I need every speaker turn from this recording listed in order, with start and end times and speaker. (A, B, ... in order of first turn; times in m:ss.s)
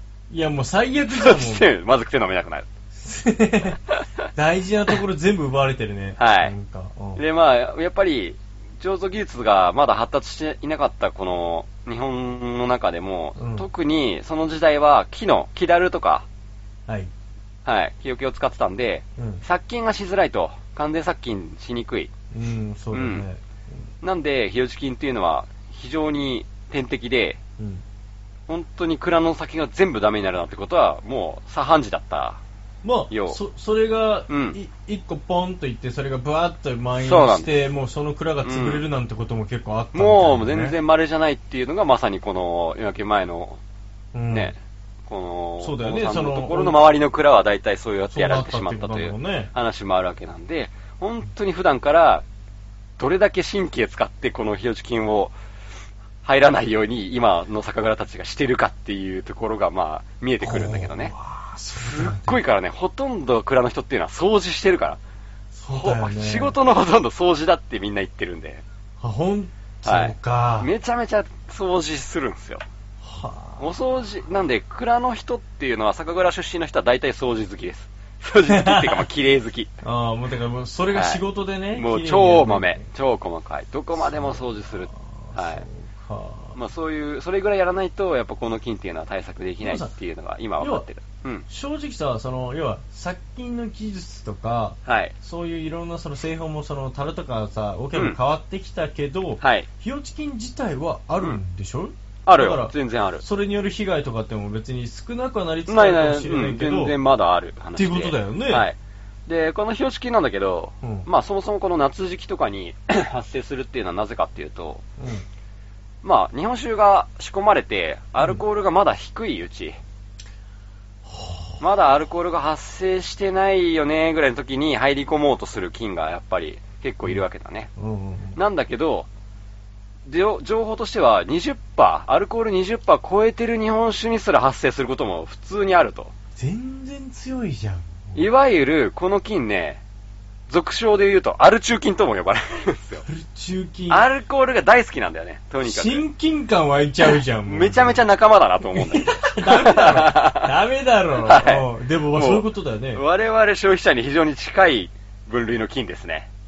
0:00.3-0:01.7 A
0:01.1-0:02.7 B
0:02.9-0:03.8 A
0:04.3-0:07.2 A
0:06.2-0:06.5 B
0:07.2-0:16.3 B
0:13.4-0:13.7 A
0:16.9-0:17.1 A
0:17.6-0:22.1 B
0:19.2-0:19.4 A
0:22.3-0:23.8 A
0:22.9-0:23.3 B
0:24.0-0:27.4 B
0:27.6-0:27.8 A
0:28.5-0:32.4 B
0:32.8-0:40.8 A
0:33.1-0:33.4 B
0:34.3-0:34.6 B
0:37.0-0:37.5 B
0:38.4-0:38.8 B
0:39.9-0:43.6 B
0:44.1-0:44.5 A
0:44.3-0:52.2 B
0:45.6-0:46.8 A
0:48.1-0:49.5 A
0:53.0-0:55.4 B
0:56.2-1:01.1 B
1:00.4-1:02.4 A
1:01.7-1:05.0 B
1:05.5-1:06.6 A
1:05.7-1:08.6 B
1:09.0-1:10.7 A
1:09.8-1:12.6 B
1:13.0-1:13.7 A
1:13.6-1:19.7 B
1:18.5-1:19.1 A
1:19.8-1:22.9 A
1:20.9-1:21.2 B
1:21.7-1:25.6 B
1:24.0-1:26.6 A
1:26.6-1:31.4 B
1:29.6-1:29.9 A
1:30.6-1:30.8 A
1:31.5-1:47.0 A
1:34.9-1:35.1 B
1:39.4-1:39.7 B
1:42.3-1:43.2 B
1:45.7-1:48.8 B
1:47.8-1:48.7 A
1:49.3-1:54.8 B
1:50.8-1:51.1 A
1:55.0-1:55.2 A
1:56.0-1:59.8 B
2:01.0-2:01.6 A
2:01.6-2:07.7 B
2:07.8-2:08.4 A
2:08.4-2:09.1 B
2:10.1-2:16.1 B
2:16.4-2:18.3 A
2:18.2-2:19.8 B
2:20.5-2:23.0 B
2:23.0-2:24.1 A
2:23.9-2:26.0 B
2:25.6-2:28.0 A
2:27.1-2:30.5 B
2:28.7-2:33.0 A
2:31.2-2:36.3 B